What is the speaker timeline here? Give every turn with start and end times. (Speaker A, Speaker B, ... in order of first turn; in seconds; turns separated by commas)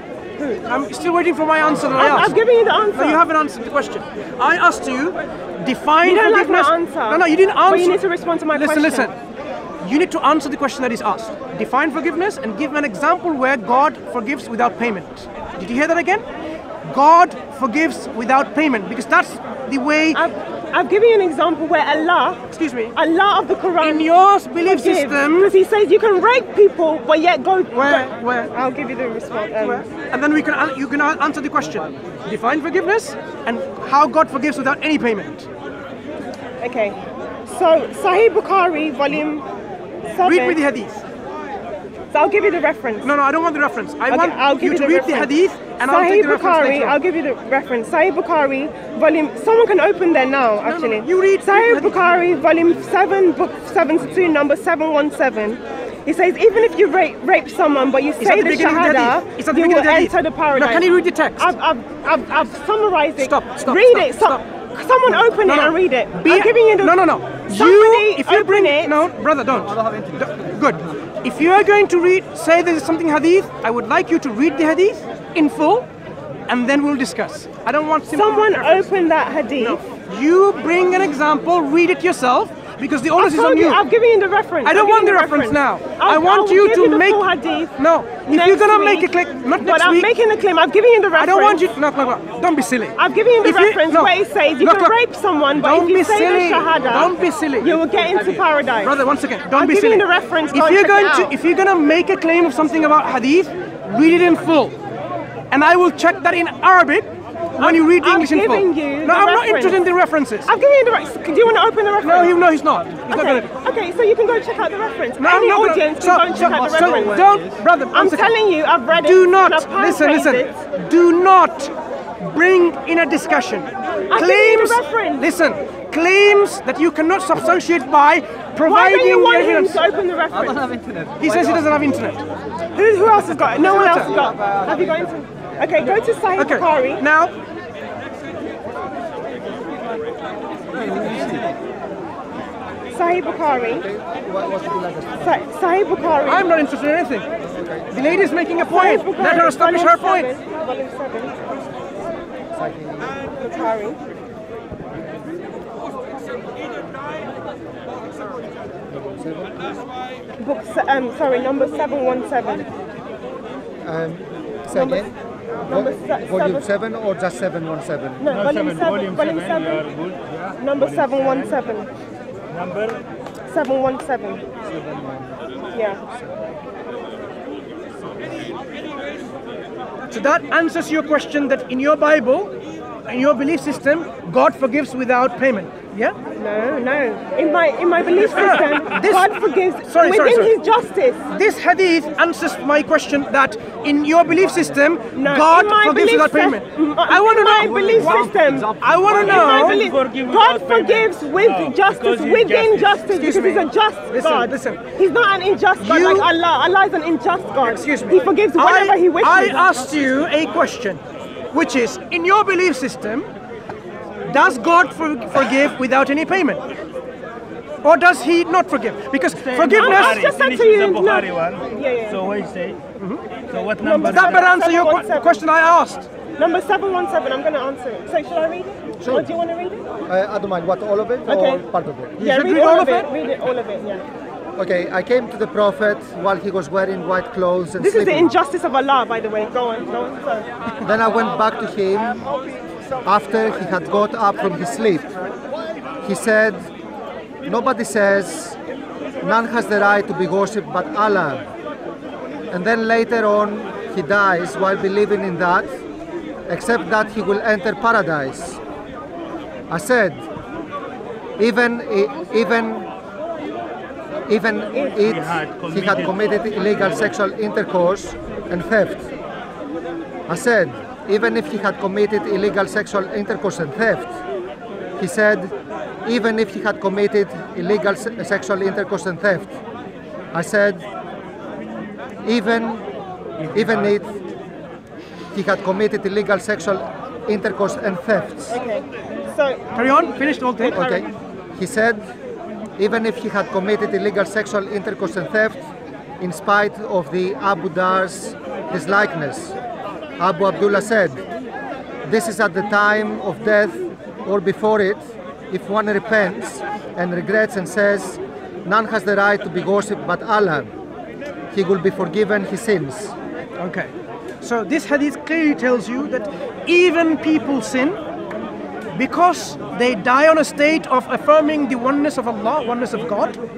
Speaker A: 0.4-0.6, Speaker B: 0.7-2.4, Speaker A: 1.9-3.2, Speaker B: 2.9-9.1, Speaker A: 6.0-9.1, Speaker B: 9.8-16.2, Speaker B: 16.8-20.2, Speaker A: 20.1-29.9, Speaker B: 22.5-22.9, Speaker B: 23.8-25.5, Speaker B: 27.7-28.5, Speaker B: 29.6-35.5, Speaker A: 36.6-39.5, Speaker A: 40.1-40.6, Speaker B: 40.2-41.0, Speaker A: 42.1-43.1, Speaker B: 43.0-47.0, Speaker A: 44.1-69.0, Speaker B: 50.6-52.0, Speaker B: 58.2-61.5, Speaker B: 63.2-64.4, Speaker B: 65.4-75.9, Speaker B: 76.5-78.9, Speaker A: 78.1-79.8, Speaker B: 79.6-83.8, Speaker A: 83.2-91.6, Speaker B: 84.6-90.1, Speaker B: 91.2-95.0, Speaker A: 93.0-99.0, Speaker B: 95.5-97.8, Speaker B: 98.8-104.8, Speaker A: 99.5-101.3, Speaker B: 105.5-110.5, Speaker A: 107.6-109.9, Speaker A: 110.4-112.4, Speaker B: 112.0-113.5, Speaker A: 113.1-117.3, Speaker B: 115.2-118.3, Speaker A: 117.9-120.6, Speaker B: 118.9-129.8, Speaker A: 124.1-125.3, Speaker A: 128.6-130.8, Speaker B: 131.2-132.2, Speaker A: 132.7-137.1, Speaker B: 133.6-134.3, Speaker B: 136.4-137.3, Speaker A: 142.9-143.8, Speaker C: 143.7-145.3, Speaker A: 145.2-146.5, Speaker B: 146.2-147.3, Speaker C: 147.4-147.9, Speaker B: 147.9-150.3, Speaker A: 148.5-151.3, Speaker C: 152.5-153.2, Speaker A: 153.3-154.0, Speaker C: 158.9-159.6, Speaker A: 160.4-162.7, Speaker C: 163.8-165.1, Speaker A: 164.7-165.1, Speaker A: 165.6-166.7, Speaker C: 165.7-168.2, Speaker A: 168.2-169.9, Speaker D: 168.3-171.3, Speaker A: 170.6-171.9, Speaker D: 172.5-173.0, Speaker A: 173.5-174.4, Speaker C: 174.6-175.4, Speaker A: 175.7-176.0, Speaker B: 180.1-182.5, Speaker B: 183.1-186.2, Speaker A: 186.3-191.2, Speaker B: 188.2-190.6, Speaker B: 191.3-199.8, Speaker A: 195.1-209.7, Speaker D: 199.4-203.1, Speaker B: 203.1-204.8, Speaker B: 205.8-206.3, Speaker B: 207.6-213.3, Speaker B: 214.2-216.6, Speaker B: 217.8-220.2, Speaker D: 219.5-221.5, Speaker A: 219.7-222.3, Speaker D: 222.2-222.8, Speaker B: 223.0-223.2, Speaker D: 223.5-224.5, Speaker A: 223.8-225.4, Speaker B: 224.0-226.1, Speaker A: 226.4-229.8, Speaker C: 229.0-229.3, Speaker C: 230.1-232.2, Speaker A: 231.2-231.6, Speaker B: 232.2-233.1, Speaker A: 232.2-234.0, Speaker C: 234.6-238.3, Speaker A: 237.8-240.5, Speaker C: 240.8-242.3, Speaker C: 243.0-245.2, Speaker C: 246.0-246.6, Speaker C: 247.4-248.6, Speaker C: 249.2-251.4, Speaker C: 252.5-255.7, Speaker C: 256.5-258.6, Speaker C: 259.7-260.2, Speaker C: 261.4-262.9, Speaker C: 264.3-269.1, Speaker D: 265.1-266.1, Speaker C: 270.3-274.1, Speaker C: 275.0-275.5, Speaker C: 276.0-279.5, Speaker C: 280.3-280.8, Speaker C: 282.2-282.9, Speaker C: 283.5-284.2, Speaker C: 285.3-288.6, Speaker A: 288.4-291.0, Speaker B: 289.7-290.8, Speaker C: 290.7-292.0, Speaker C: 292.8-295.6, Speaker C: 296.2-299.5, Speaker C: 300.2-301.2, Speaker C: 302.0-310.7, Speaker C: 311.5-313.1, Speaker B: 313.6-318.0, Speaker B: 318.9-323.4